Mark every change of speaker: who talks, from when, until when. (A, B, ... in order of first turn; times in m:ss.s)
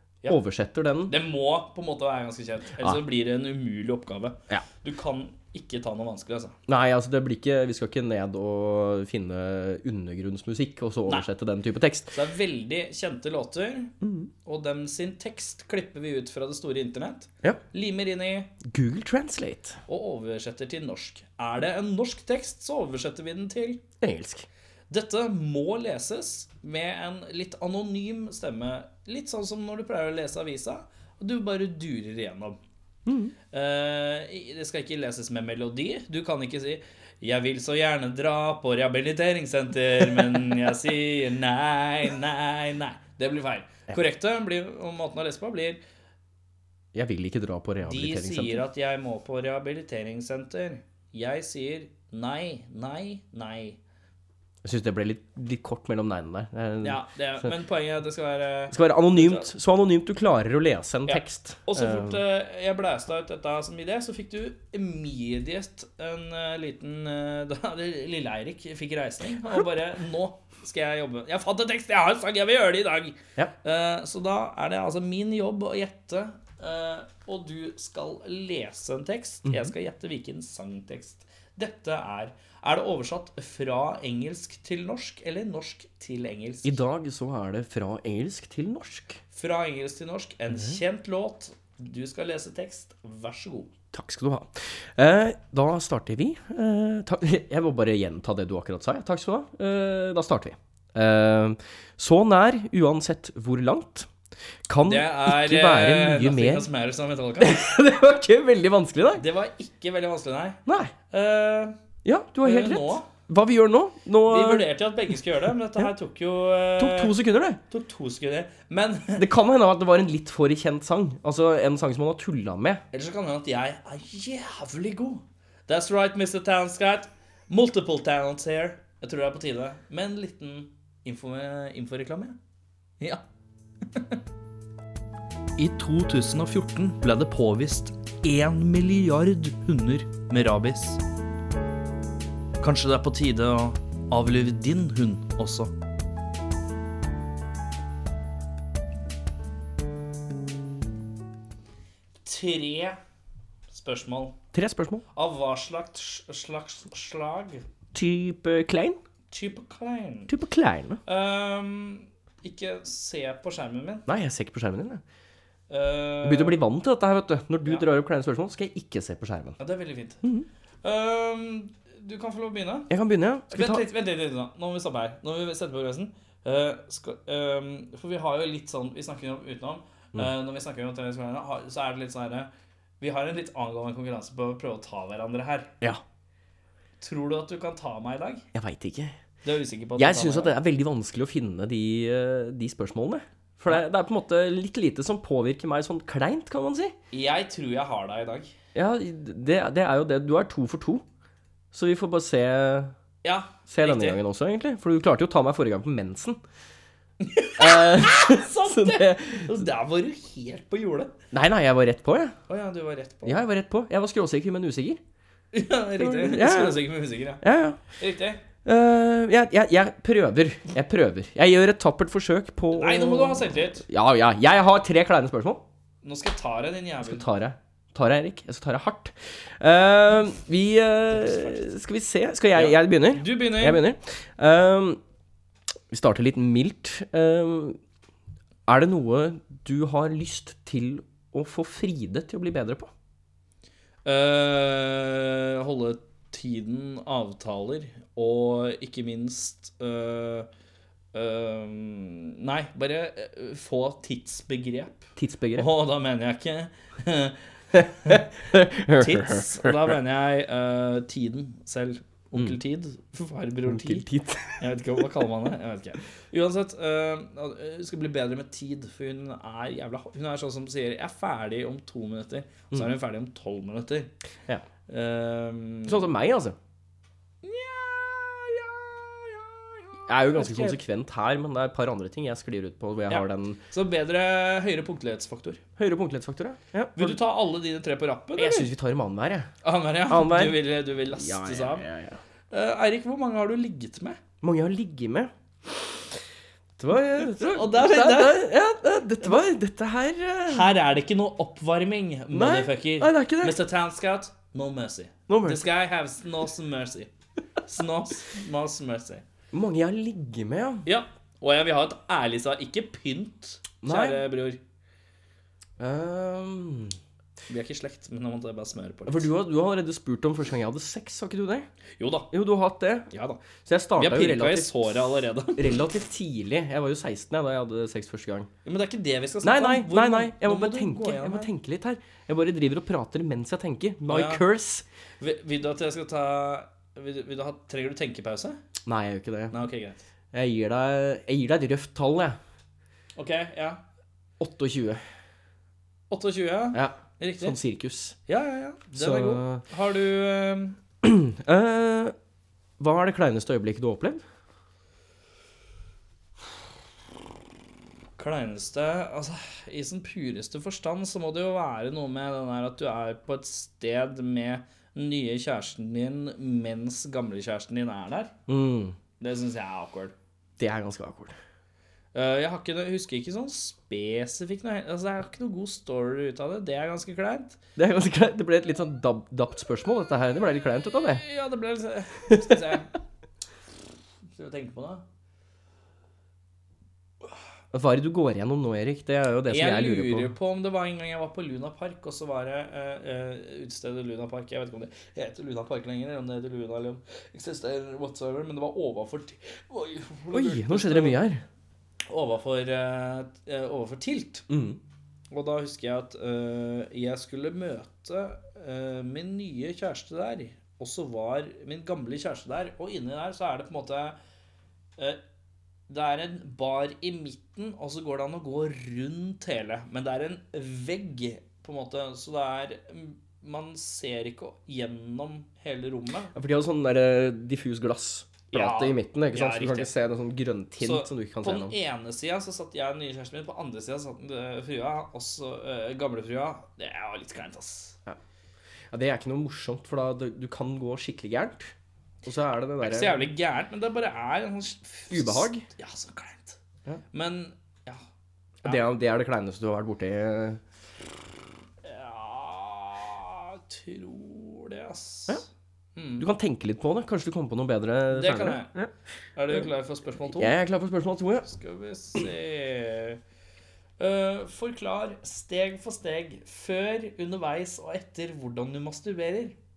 0:00.3-0:01.2 A
0:01.1-0:06.6 B
0:06.7-0:12.2 A
0:12.1-0:13.9 B
0:14.0-0:14.3 A
0:14.4-0:18.5 B
0:18.6-0:19.8 A
0:19.9-0:23.8 B
0:24.0-0:24.5 A
0:24.9-0:32.6 B
0:33.1-0:33.3 A
0:33.5-0:45.8 B
0:46.9-0:48.6 A
0:47.8-0:53.8 B
0:54.6-0:57.5 A
0:56.8-0:59.5 B
0:58.7-1:02.2 A
1:01.1-1:26.8 B
1:19.4-1:19.7 A
1:26.6-1:29.2 A
1:29.3-1:33.7 B
1:30.5-1:30.8 A
1:33.9-1:44.1 A
1:44.7-1:46.7 A
1:44.8-1:47.7 B
1:47.4-1:49.2 A
1:49.2-1:50.6 B
1:50.7-1:50.9 A
1:51.1-1:51.8 B
1:52.0-1:54.7 A
1:52.4-1:53.1 B
1:54.3-1:57.1 B
1:56.8-1:57.6 A
1:57.7-1:59.2 B
1:59.2-2:02.8 A
2:02.9-2:12.4 B
2:15.6-2:21.0 B
2:22.6-2:25.7 B
2:32.2-2:33.0 B
2:33.7-2:34.4 B
2:34.5-2:35.0 A
2:35.1-2:37.6 B
2:37.9-2:39.0 A
2:39.3-2:40.3 B
2:40.3-2:41.0 A
2:41.1-2:44.1 B
2:44.1-2:45.0 A
2:45.7-2:46.6 B
2:46.2-2:49.6 A
2:49.6-2:50.2 B
2:50.8-2:52.9 B
2:52.9-2:53.8 A
2:53.5-3:02.5 B
3:03.0-3:05.7 B
3:07.0-3:08.4 B
3:08.5-3:09.2 A
3:09.4-3:10.6 B
3:10.0-3:17.0 A
3:17.1-3:18.5 B
3:18.8-3:21.0 A
3:21.7-3:22.9 A
3:23.2-3:24.2 B
3:23.7-3:26.4 A
3:27.2-3:31.1 B
3:27.6-3:29.7 A
3:31.3-3:32.4 A
3:32.5-3:33.4 B
3:33.2-3:35.0 A
3:35.5-3:37.4 B
3:36.0-3:36.9 A
3:37.4-3:37.8 A
3:38.0-3:38.4 B
3:38.6-3:45.6 A
3:42.7-3:43.8 B
3:46.0-3:47.2 B
3:47.0-3:55.0 A
3:52.6-3:53.8 B
3:55.9-3:57.8 A
3:58.7-4:02.9 A
4:04.0-4:10.5 B
4:11.1-4:17.4 B
4:15.2-4:15.7 A
4:17.8-4:20.0 A
4:19.0-4:24.1 B
4:23.6-4:24.7 A
4:24.6-4:34.1 B
4:34.9-4:36.1 B
4:35.9-4:36.6 A
4:37.4-4:40.8 B
4:40.1-4:43.6 A
4:43.1-4:45.6 B
4:45.8-4:47.2 A
4:47.0-4:48.7 B
4:48.4-4:49.5 A
4:49.6-4:51.9 B
4:50.1-4:52.2 A
4:52.5-4:54.2 B
4:54.4-4:55.9 A
4:56.8-5:00.7 A
4:57.2-4:58.5 B
5:00.5-5:07.1 B
5:02.3-5:03.6 A
5:05.3-5:05.7 A
5:07.6-5:09.2 B
5:09.5-5:10.9 A
5:10.9-5:14.6 B
5:13.8-5:14.2 A
5:15.8-5:17.0 A
5:17.5-5:19.3 B
5:19.1-5:21.7 A
5:22.0-5:22.3 B
5:22.3-5:24.8 A
5:23.1-5:23.4 B
5:24.0-5:25.7 B
5:25.6-5:28.5 A
5:28.6-5:31.5 B
5:29.4-5:34.9 A
5:34.1-5:34.4 B
5:35.2-5:38.6 B
5:38.9-5:39.6 A
5:39.5-5:40.0 B
5:40.3-5:42.4 A
5:43.2-5:43.8 B
5:44.4-5:45.0 A
5:46.1-5:47.6 B
5:46.7-5:48.2 A
5:48.3-5:50.8 B
5:48.9-5:49.6 A
5:51.0-5:52.2 A
5:52.8-5:54.2 A
5:58.2-6:08.3 B
6:08.5-6:09.0 A
6:09.2-6:10.1 B
6:10.6-6:11.4 A
6:12.1-6:17.6 B
6:17.8-6:21.2 A
6:20.9-6:22.9 B
6:22.3-6:22.8 A
6:24.4-6:25.0 B
6:27.7-6:30.3 A
6:29.5-6:41.2 B
6:40.3-6:41.4 A
6:42.1-6:44.5 B
6:44.5-6:44.8 A
6:45.3-6:54.2 B
6:55.9-7:06.3 B
7:06.3-7:11.8 A
7:08.5-7:09.9 B
7:10.8-7:18.0 B
7:18.9-7:21.7 A
7:22.2-7:23.2 A
7:22.8-7:26.6 B
7:25.1-7:25.7 A
7:27.1-7:28.0 B
7:28.6-7:30.6 A
7:31.8-7:36.3 B
7:36.2-7:38.9 A
7:38.1-7:38.7 B
7:39.4-7:40.6 B
7:40.3-7:41.5 A
7:41.4-7:43.2 B
7:44.0-7:49.6 B